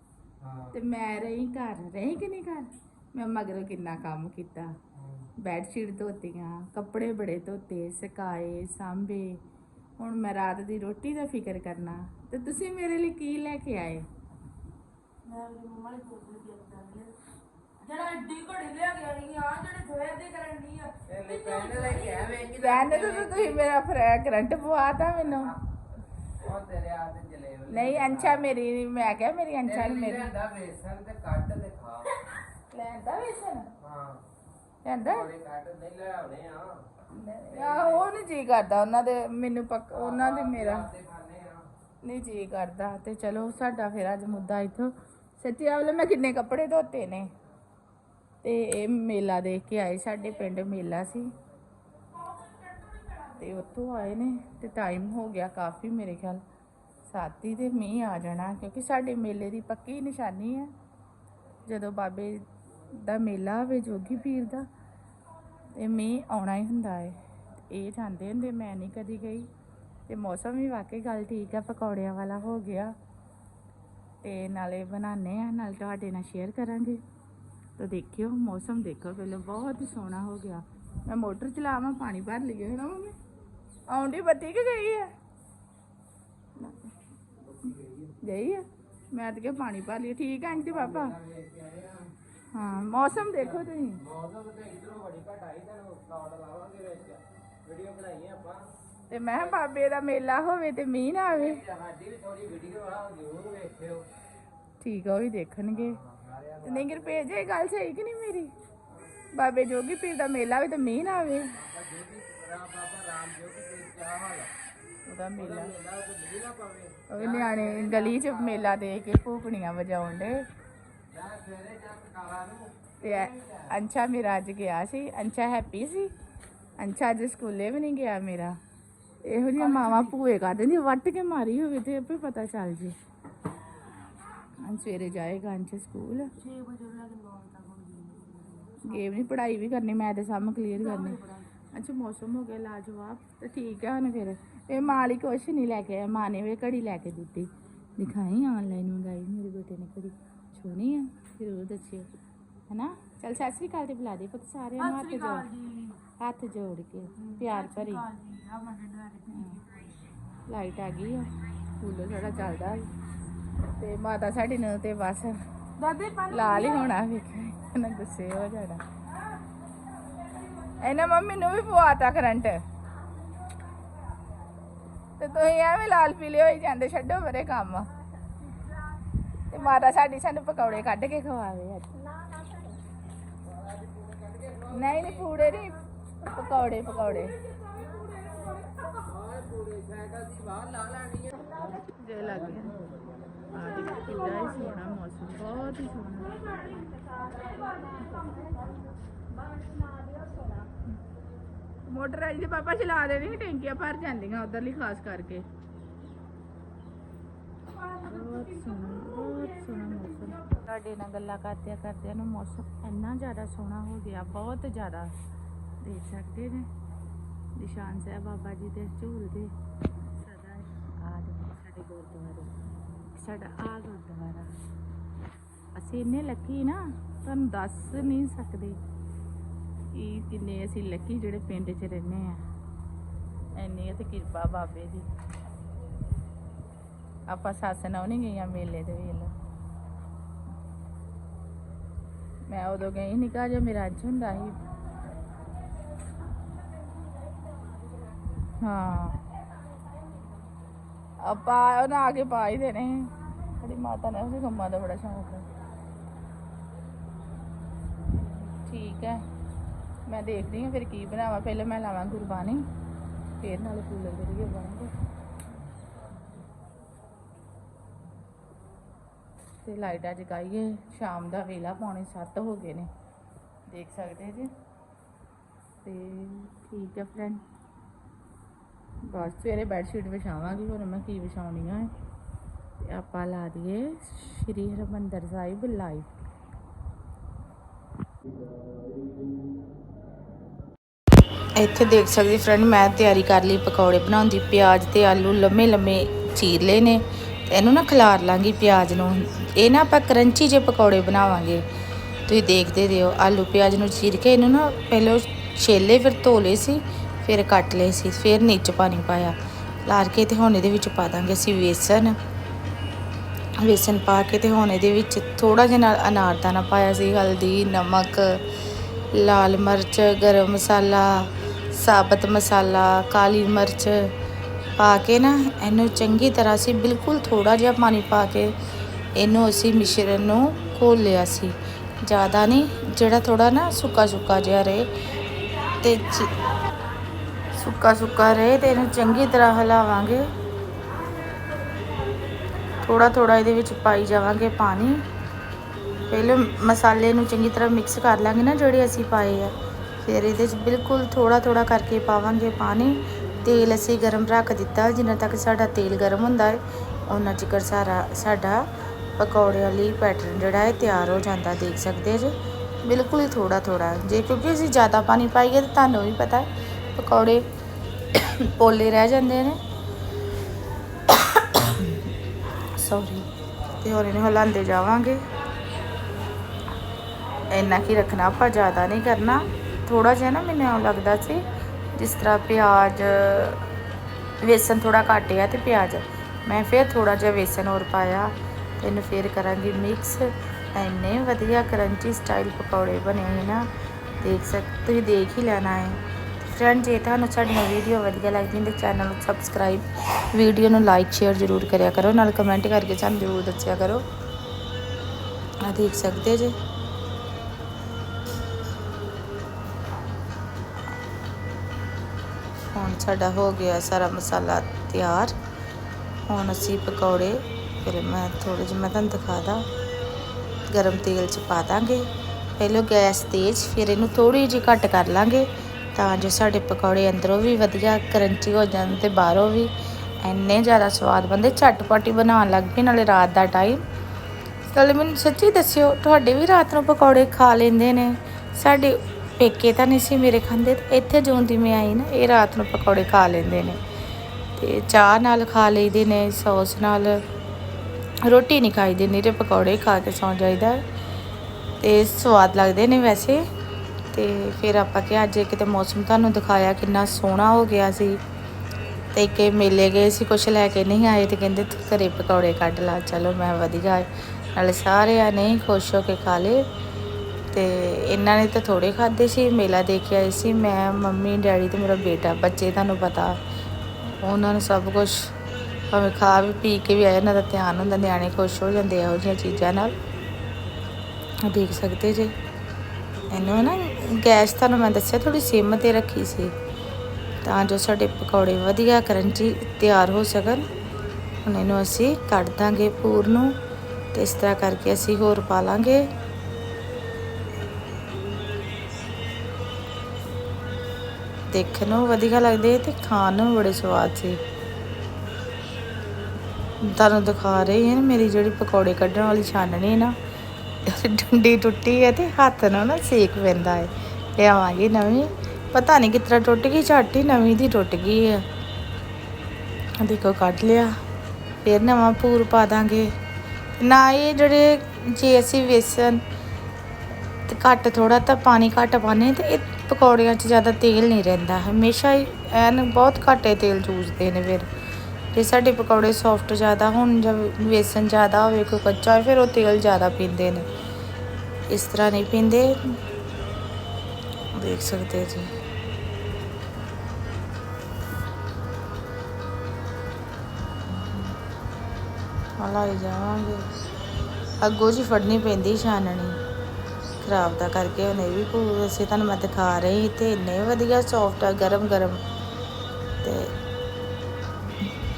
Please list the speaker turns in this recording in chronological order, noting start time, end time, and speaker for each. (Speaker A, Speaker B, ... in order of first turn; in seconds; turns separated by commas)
Speaker A: 0.4-0.7, Speaker B: 0.7-4.8, Speaker A: 5.0-5.3, Speaker B: 5.4-9.4, Speaker B: 10.0-14.1, Speaker C: 15.2-17.1, Speaker C: 17.8-21.0, Speaker A: 21.0-23.6, Speaker B: 22.4-25.6, Speaker A: 26.4-28.5, Speaker B: 27.7-30.3, Speaker A: 29.7-32.1, Speaker B: 32.7-33.7, Speaker A: 33.8-34.2, Speaker B: 34.8-35.3, Speaker A: 35.1-36.9, Speaker B: 37.1-40.9, Speaker A: 37.6-38.1, Speaker A: 39.9-41.7, Speaker B: 42.0-47.3, Speaker B: 48.4-51.3, Speaker B: 53.3-56.4, Speaker B: 57.0-60.7, Speaker B: 61.7-64.7, Speaker B: 65.7-69.5, Speaker B: 70.1-73.0, Speaker B: 74.2-77.0, Speaker B: 77.8-83.2, Speaker B: 83.9-85.1, Speaker B: 88.2-91.2, Speaker A: 91.0-92.1, Speaker B: 92.5-94.0, Speaker A: 94.0-98.7, Speaker B: 99.1-101.7, Speaker A: 101.5-104.1, Speaker B: 104.8-106.0, Speaker A: 105.8-107.1, Speaker B: 106.6-108.5, Speaker B: 109.3-111.5, Speaker A: 111.6-114.5, Speaker B: 115.1-115.8, Speaker A: 115.4-118.5, Speaker B: 117.1-120.4, Speaker A: 121.1-123.6, Speaker B: 123.0-126.1, Speaker B: 126.8-128.6, Speaker B: 129.2-133.0, Speaker C: 129.7-130.2, Speaker B: 134.6-136.3, Speaker C: 136.4-138.8, Speaker B: 138.8-141.2, Speaker C: 140.8-141.5, Speaker B: 141.7-152.1, Speaker B: 152.7-155.5, Speaker C: 154.8-156.0, Speaker B: 156.2-158.1, Speaker C: 157.2-159.6, Speaker B: 159.3-159.6, Speaker B: 160.5-161.3, Speaker B: 161.8-162.9, Speaker B: 163.8-165.4, Speaker C: 165.8-166.8, Speaker B: 166.3-168.8, Speaker B: 170.8-172.6, Speaker B: 175.2-177.9, Speaker B: 179.5-182.1, Speaker A: 183.6-184.8, Speaker B: 184.7-187.4, Speaker A: 187.7-191.7, Speaker B: 191.9-192.8, Speaker B: 193.5-197.0, Speaker C: 199.7-200.2, Speaker B: 201.8-205.5, Speaker B: 207.8-215.2, Speaker B: 215.8-216.7, Speaker B: 217.6-219.5, Speaker B: 220.1-222.5, Speaker B: 223.1-224.6, Speaker B: 225.8-228.8, Speaker B: 229.9-232.4, Speaker B: 233.6-235.1, Speaker B: 237.3-239.3, Speaker B: 242.5-244.6, Speaker B: 248.6-249.2, Speaker B: 251.2-255.4, Speaker B: 258.6-259.2, Speaker B: 260.1-262.6, Speaker B: 263.4-264.9, Speaker B: 269.6-272.9, Speaker B: 273.7-274.5, Speaker B: 275.8-277.4, Speaker B: 279.0-281.9, Speaker B: 282.8-286.1, Speaker B: 291.6-301.7, Speaker B: 302.3-312.2, Speaker B: 313.6-324.1, Speaker B: 324.8-328.5, Speaker B: 329.1-334.9, Speaker B: 335.6-336.5, Speaker B: 337.5-340.3, Speaker B: 342.6-345.0, Speaker B: 346.1-367.5, Speaker B: 368.1-369.6, Speaker B: 371.1-372.0, Speaker B: 372.7-375.2, Speaker B: 377.4-383.6, Speaker B: 384.4-393.7, Speaker B: 394.2-404.0, Speaker B: 405.6-406.6, Speaker B: 412.6-415.4, Speaker B: 416.3-419.7, Speaker B: 420.7-433.9, Speaker B: 434.7-443.8, Speaker B: 444.6-447.2, Speaker B: 448.2-450.9, Speaker B: 451.8-453.4, Speaker B: 454.1-458.2, Speaker B: 459.1-466.7, Speaker B: 467.5-473.4, Speaker B: 474.2-475.3, Speaker B: 475.9-479.9, Speaker B: 481.4-482.4, Speaker B: 483.3-486.5, Speaker B: 487.4-490.7, Speaker B: 491.4-493.6, Speaker B: 494.1-496.1, Speaker B: 501.5-504.4, Speaker B: 506.8-510.2, Speaker B: 510.8-518.4, Speaker B: 520.0-520.9, Speaker B: 521.6-523.1, Speaker B: 523.8-526.2, Speaker B: 527.5-534.7, Speaker B: 535.3-540.7, Speaker B: 541.7-542.8, Speaker B: 544.5-545.5, Speaker B: 552.6-553.6, Speaker B: 554.6-556.4, Speaker B: 557.2-562.2, Speaker B: 563.2-563.5